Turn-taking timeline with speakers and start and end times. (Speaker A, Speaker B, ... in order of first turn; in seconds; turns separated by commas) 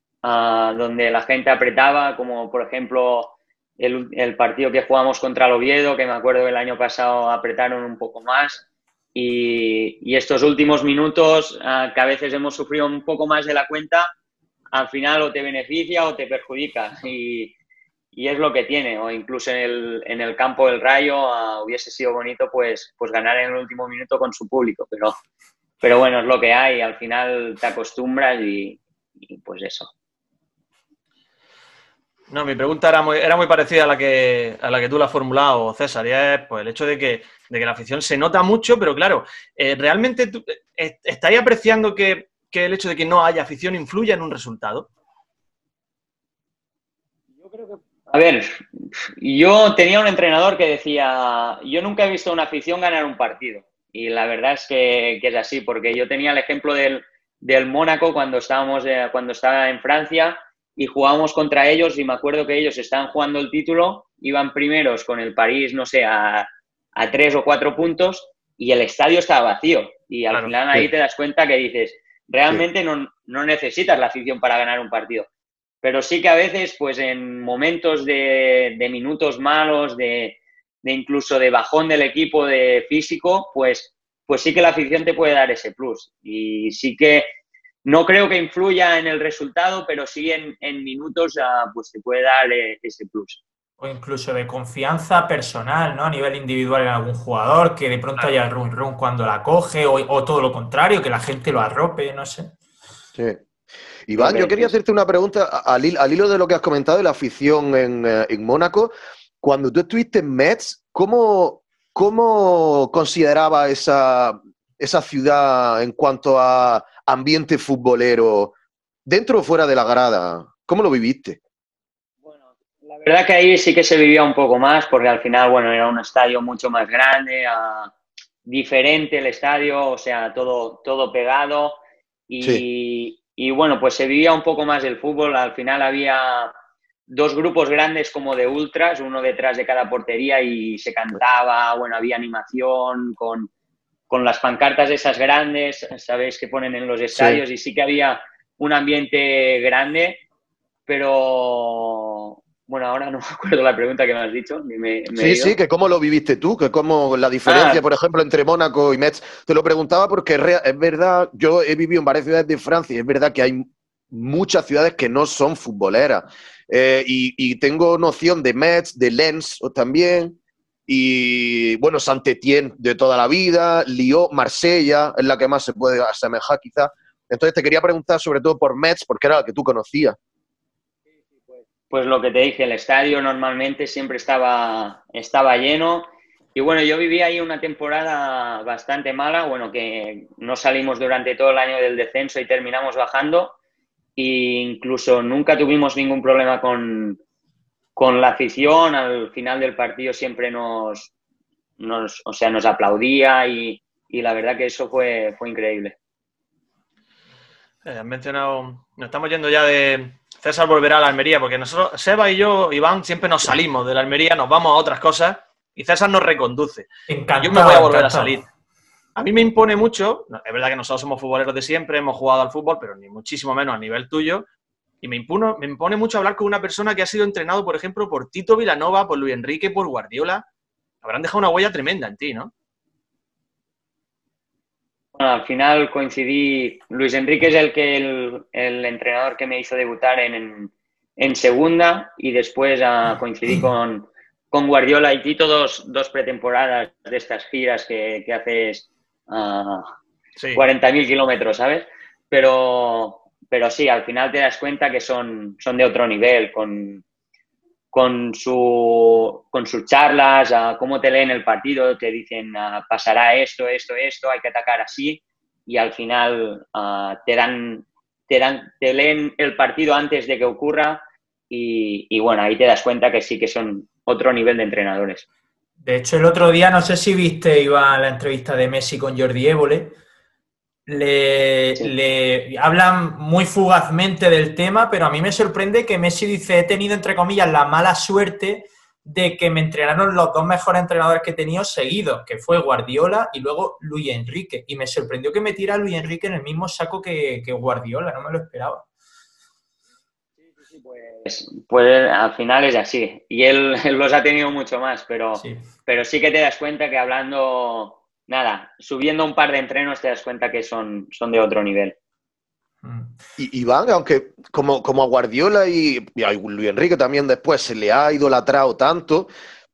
Speaker A: 0.2-8.6, Speaker A: 9.1-14.1, Speaker A: 14.7-17.5, Speaker A: 18.1-25.1, Speaker A: 25.8-29.9, Speaker B: 32.3-44.9, Speaker A: 47.4-75.3, Speaker A: 75.8-87.3, Speaker A: 87.8-93.4, Speaker C: 93.8-102.5, Speaker D: 103.1-103.4, Speaker D: 104.1-118.5, Speaker A: 104.2-104.7, Speaker D: 119.0-121.4, Speaker A: 122.2-127.9, Speaker A: 128.4-136.5, Speaker A: 137.1-143.5, Speaker A: 144.1-150.2, Speaker D: 147.1-147.4, Speaker A: 150.9-155.6, Speaker D: 155.2-170.3, Speaker A: 157.4-157.8, Speaker D: 170.9-180.2, Speaker A: 181.4-193.6, Speaker A: 194.2-197.2, Speaker A: 197.9-201.1, Speaker A: 201.8-206.0, Speaker B: 207.8-216.9, Speaker C: 217.1-218.4, Speaker B: 217.4-218.4, Speaker B: 219.2-224.5, Speaker B: 225.0-230.4, Speaker B: 231.0-232.5, Speaker A: 235.1-249.9, Speaker B: 250.4-250.6, Speaker A: 250.6-257.0, Speaker A: 257.9-275.2, Speaker C: 275.8-280.0, Speaker C: 280.9-298.9, Speaker A: 300.5-311.9, Speaker C: 312.8-313.1, Speaker D: 313.4-319.3